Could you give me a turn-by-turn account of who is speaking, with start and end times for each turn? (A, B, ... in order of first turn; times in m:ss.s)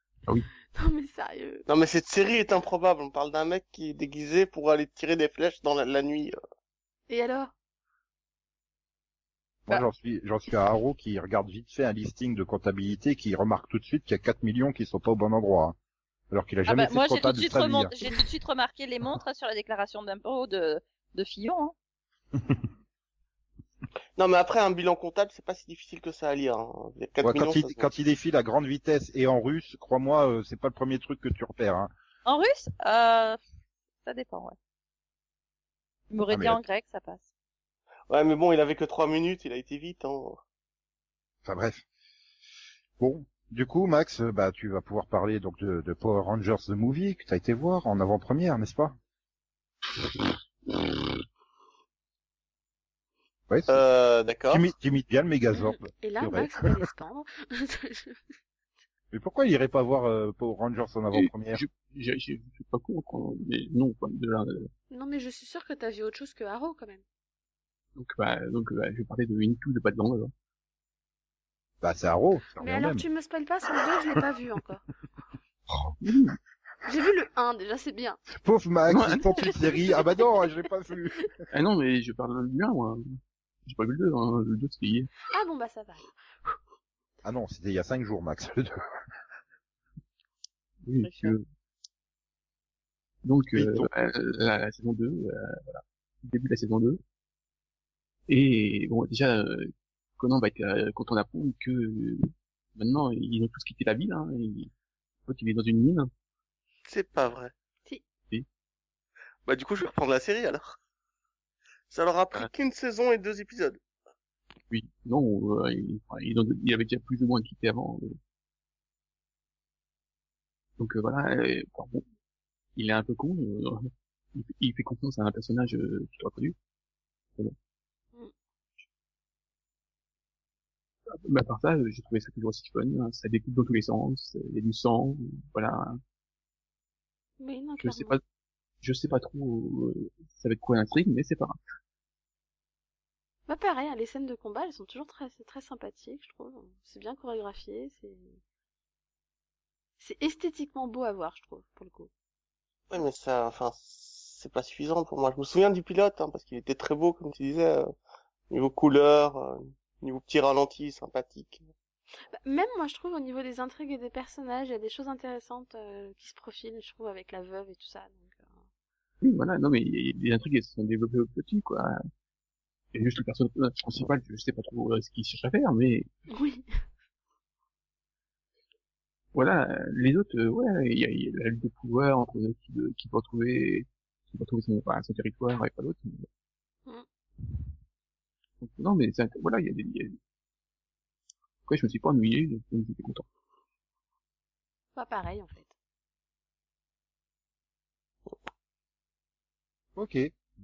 0:00.7-0:01.6 A
0:01.7-0:06.4 B
0:07.1-0:07.5 A
0:09.6-0:15.8 C
0:16.3-0:17.9 C
0:16.7-0:21.7 D
0:24.2-0:27.9 B
0:27.2-0:31.9 C
0:32.2-0:33.4 D
0:34.0-0:34.6 D
0:36.1-0:37.3 D
0:36.3-0:36.6 C
0:38.1-0:40.4 B
0:41.4-0:41.8 C
0:43.0-0:49.0 C
0:53.5-0:53.8 C
0:53.7-0:54.6 B
0:54.5-0:56.8 C
0:55.6-0:58.2 A
0:59.1-1:01.6 C
1:01.1-1:04.7 E
1:04.9-1:07.0 A
1:08.0-1:10.3 E
1:11.8-1:13.1 C
1:12.6-1:14.8 A
1:15.7-1:15.9 C
1:16.0-1:16.4 E
1:16.8-1:18.2 A
1:18.3-1:21.3 C
1:18.9-1:19.3 E
1:21.5-1:25.1 E
1:25.3-1:26.6 A
1:27.2-1:28.8 C
1:30.8-1:31.4 E
1:31.0-1:31.3 D
1:33.2-1:37.0 E
1:33.5-1:33.9 C
1:38.3-1:44.7 E
1:45.2-1:46.1 E
1:46.8-1:47.5 B
1:49.4-1:50.8 B
1:51.9-1:53.8 B
1:54.7-1:58.2 E
2:00.8-2:02.0 E
2:02.8-2:06.5 E
2:11.1-2:16.0 E
2:17.4-2:18.2 A
2:17.8-2:18.2 E
2:18.8-2:21.6 E
2:23.5-2:28.4 A
2:30.0-2:32.1 A
2:32.9-2:37.9 B
2:38.5-2:41.7 B
2:42.3-2:48.6 A
2:49.2-2:52.0 E
2:52.9-2:56.1 E
2:56.3-2:56.8 A
2:59.3-3:06.3 E
3:08.6-3:10.2 E
3:11.6-3:13.2 E
3:14.9-3:15.7 A
3:20.0-3:20.4 C